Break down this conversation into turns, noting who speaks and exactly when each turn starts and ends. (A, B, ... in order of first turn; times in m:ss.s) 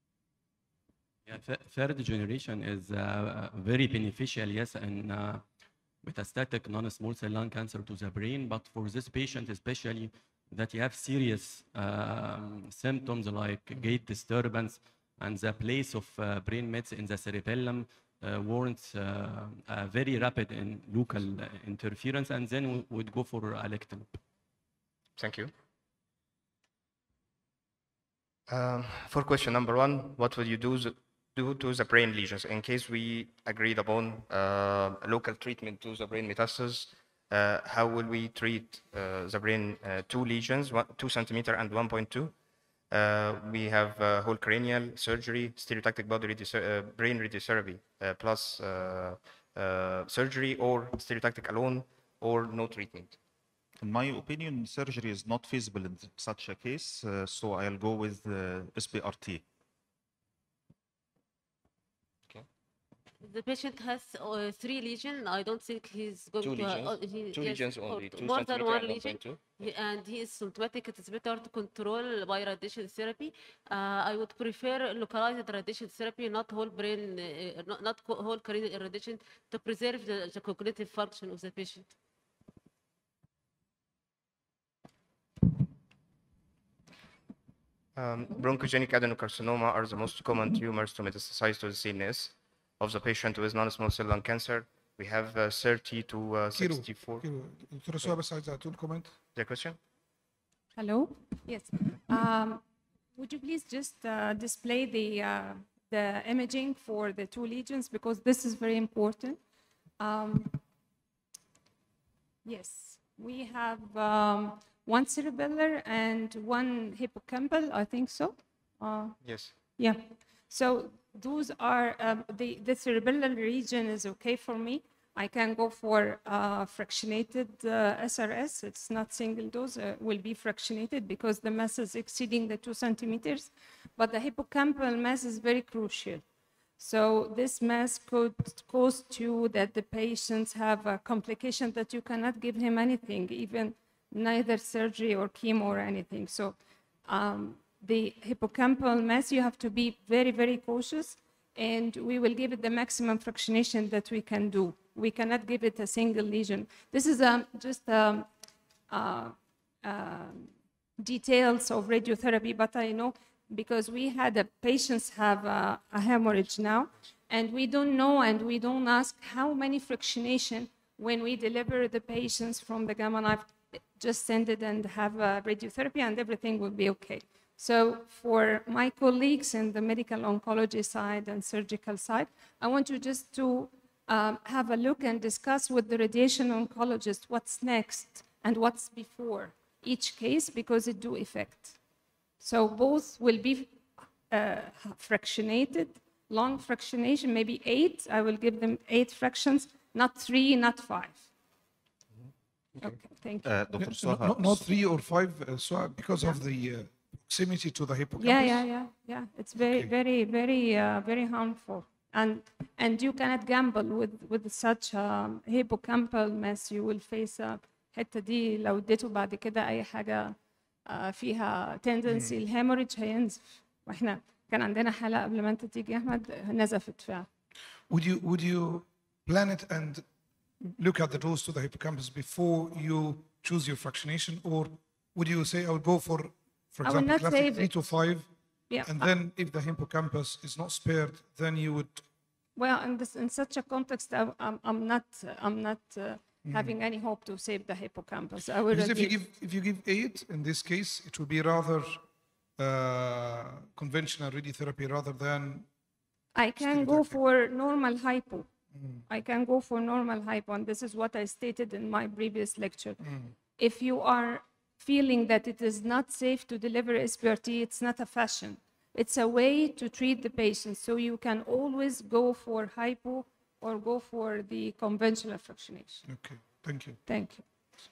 0:01.2-0:05.4 A
0:06.0-0:24.1 A
0:25.2-0:25.5 B
0:28.5-0:42.3 B
0:42.9-0:53.2 B
0:53.8-0:59.4 C
1:03.2-1:21.9 D
1:06.4-1:09.4 B
1:28.0-1:37.2 B
1:36.5-1:39.2 E
1:39.3-1:39.8 B
1:40.8-1:42.6 F
1:43.1-1:49.4 F
1:50.0-1:50.6 F
1:52.4-1:59.2 F
1:59.2-1:59.5 B
1:59.8-2:16.2 F
2:16.8-2:38.3 F
2:38.9-3:11.8 F
3:12.4-3:21.3 F
3:22.8-3:23.5 F
3:23.4-3:24.7 C
3:23.8-3:28.7 E
3:28.2-3:47.3 F
3:29.6-3:29.9 E
3:42.1-3:42.4 E
3:47.9-3:50.0 E
3:50.6-3:58.3 E
3:56.8-3:57.8 F
3:58.7-3:59.1 F
3:58.8-4:02.0 E
4:02.6-4:09.2 F
4:06.4-4:06.7 E
4:08.7-4:12.0 E
4:12.6-4:15.7 E
4:16.3-4:18.5 F
4:16.6-4:17.2 E
4:18.7-4:19.0 E
4:19.1-4:23.0 F
4:23.0-4:23.3 E
4:23.6-4:36.0 F
4:36.0-4:37.0 E
4:37.0-4:37.4 F